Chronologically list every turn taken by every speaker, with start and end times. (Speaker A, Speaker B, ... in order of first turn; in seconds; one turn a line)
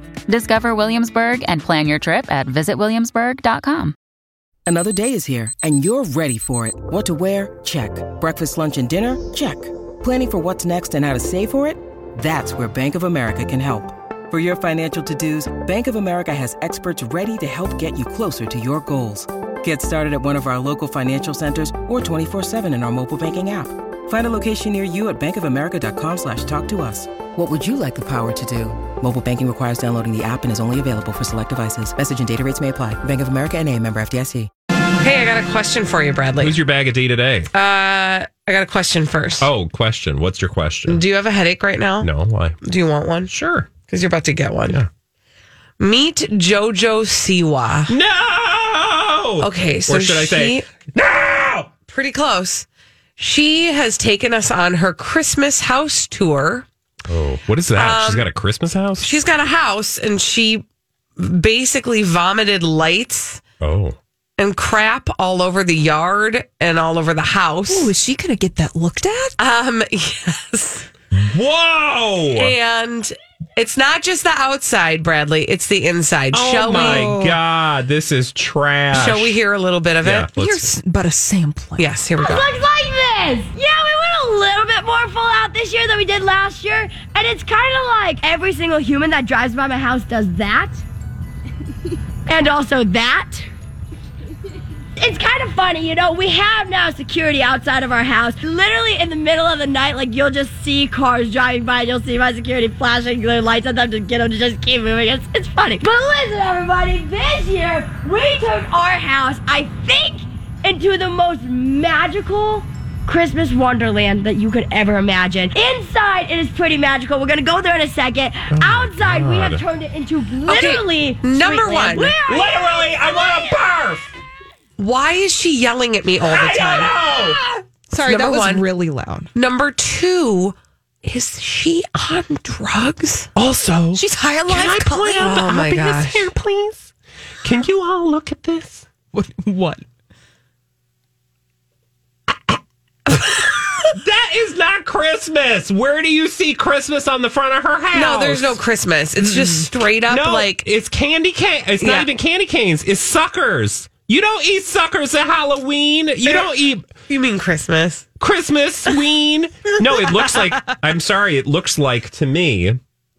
Speaker A: 0.3-3.9
Speaker B: 4.7-34.5
Speaker C: 35.0-36.6
Speaker D: 36.4-37.5
Speaker C: 37.5-39.5
Speaker D: 39.4-41.0
Speaker C: 40.9-42.1
Speaker D: 42.0-42.6
Speaker C: 42.6-43.3
Speaker D: 43.3-43.7
Speaker C: 43.9-44.8
Speaker C: 45.8-47.9
Speaker D: 47.9-51.7
Speaker C: 49.4-50.7
Speaker C: 51.9-52.6
Speaker C: 53.2-56.6
Speaker D: 57.1-59.1
Speaker C: 57.7-58.2
Speaker C: 59.0-60.6
Speaker C: 61.2-63.4
Speaker D: 63.6-64.0
Speaker C: 64.4-67.9
Speaker E: 67.7-69.3
Speaker C: 69.4-70.9
Speaker D: 71.1-72.5
Speaker C: 72.3-77.1
Speaker D: 76.3-79.4
Speaker E: 76.7-77.4
Speaker C: 78.9-80.7
Speaker D: 80.0-80.7
Speaker E: 80.7-81.9
Speaker C: 81.8-82.5
Speaker F: 82.2-90.8
Speaker F: 92.3-93.5
Speaker F: 95.0-123.3
Speaker D: 118.5-119.6
Speaker C: 120.5-122.2
Speaker D: 122.2-124.1
Speaker C: 124.8-126.9
Speaker D: 126.2-127.4
Speaker E: 127.2-129.3
Speaker C: 128.0-128.6
Speaker C: 129.3-133.3
Speaker D: 133.3-136.9
Speaker E: 133.9-135.5
Speaker C: 135.1-136.3
Speaker D: 137.4-138.9
Speaker E: 139.1-139.8
Speaker D: 143.1-148.6
Speaker C: 147.9-150.6
Speaker D: 150.1-156.9
Speaker C: 151.8-152.1
Speaker C: 156.2-156.5
Speaker C: 157.1-158.1
Speaker D: 158.2-162.8